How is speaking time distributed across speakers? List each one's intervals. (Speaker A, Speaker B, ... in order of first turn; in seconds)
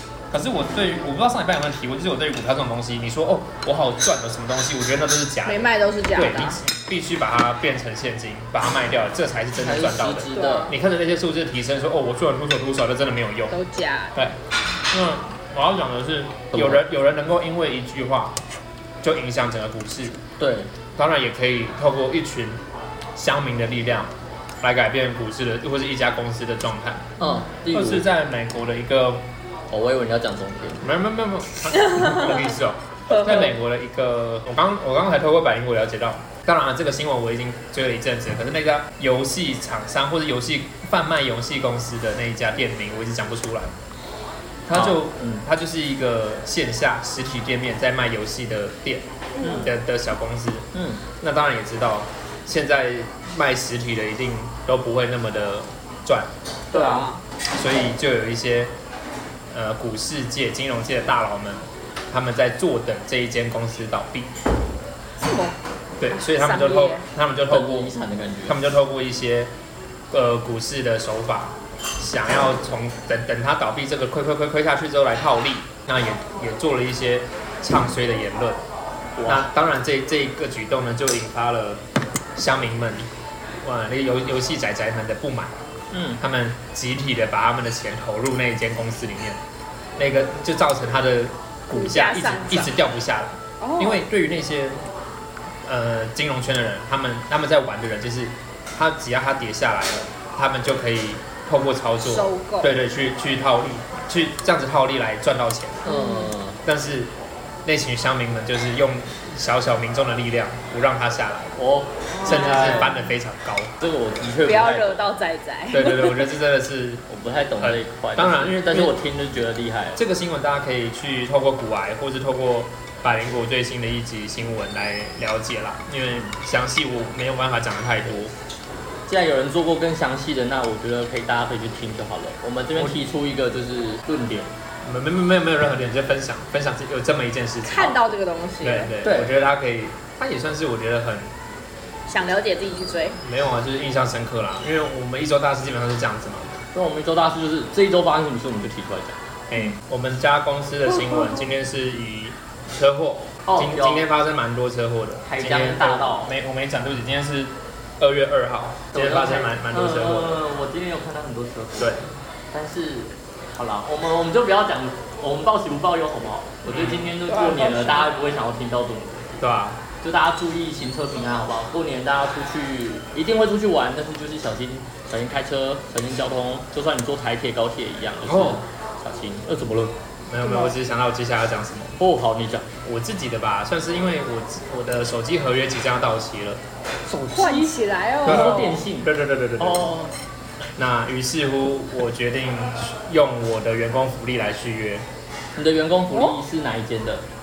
Speaker A: 0.3-13.6, 14.9-18.4, 19.0-20.2, 21.0-22.6, 23.2-27.1, 27.7-29.2, 30.8-43.8, 44.7-49.1, 49.6-50.7, 51.2-56.3, 57.5-58.7, 59.5-64.3, 66.0-67.9, 68.5-69.5, 70.1-78.6, 79.2-81.8, 82.4-83.1, 83.6-85.5, 86.2-89.4, 90.0-94.8, 95.7-105.9, 106.6-107.1, 107.7-111.6, 112.2-113.7, 115.7-117.0, 117.6-118.9, 120.0-128.3, 134.8-141.3, 143.2-146.5, 149.5-160.4, 161.8-162.0, 166.7-167.1, 169.4-169.8, 178.2-178.6, 180.3-182.0, 182.8-186.6, 188.3-189.9, 190.8-195.1
Speaker B: 5.5-6.6, 10.3-10.8, 13.5-14.2, 31.8-32.4, 33.1-33.5, 49.4-49.7, 56.7-57.2, 65.2-65.6, 66.1-67.0, 91.7-92.7, 93.6-94.1, 102.0-102.7, 105.9-106.3, 112.1-113.0, 114.4-116.3, 137.7-138.9, 142.1-143.2, 167.3-168.2, 180.4-180.8, 187.3-188.8, 196.1-196.4
Speaker C: 9.6-10.7, 16.5-16.8, 20.4-20.7, 27.2-28.1, 29.7-30.9, 44.7-45.4, 49.4-49.7, 50.7-51.0, 56.7-57.1, 67.5-68.6, 79.2-79.5, 85.9-86.2, 105.9-106.6, 111.6-113.0, 113.8-115.0, 117.1-120.0, 129.1-134.5, 139.0-139.3, 146.7-149.2, 153.5-154.1, 155.3-156.3, 158.9-169.4, 170.0-179.9, 182.0-182.7, 187.1-190.1, 195.6-197.2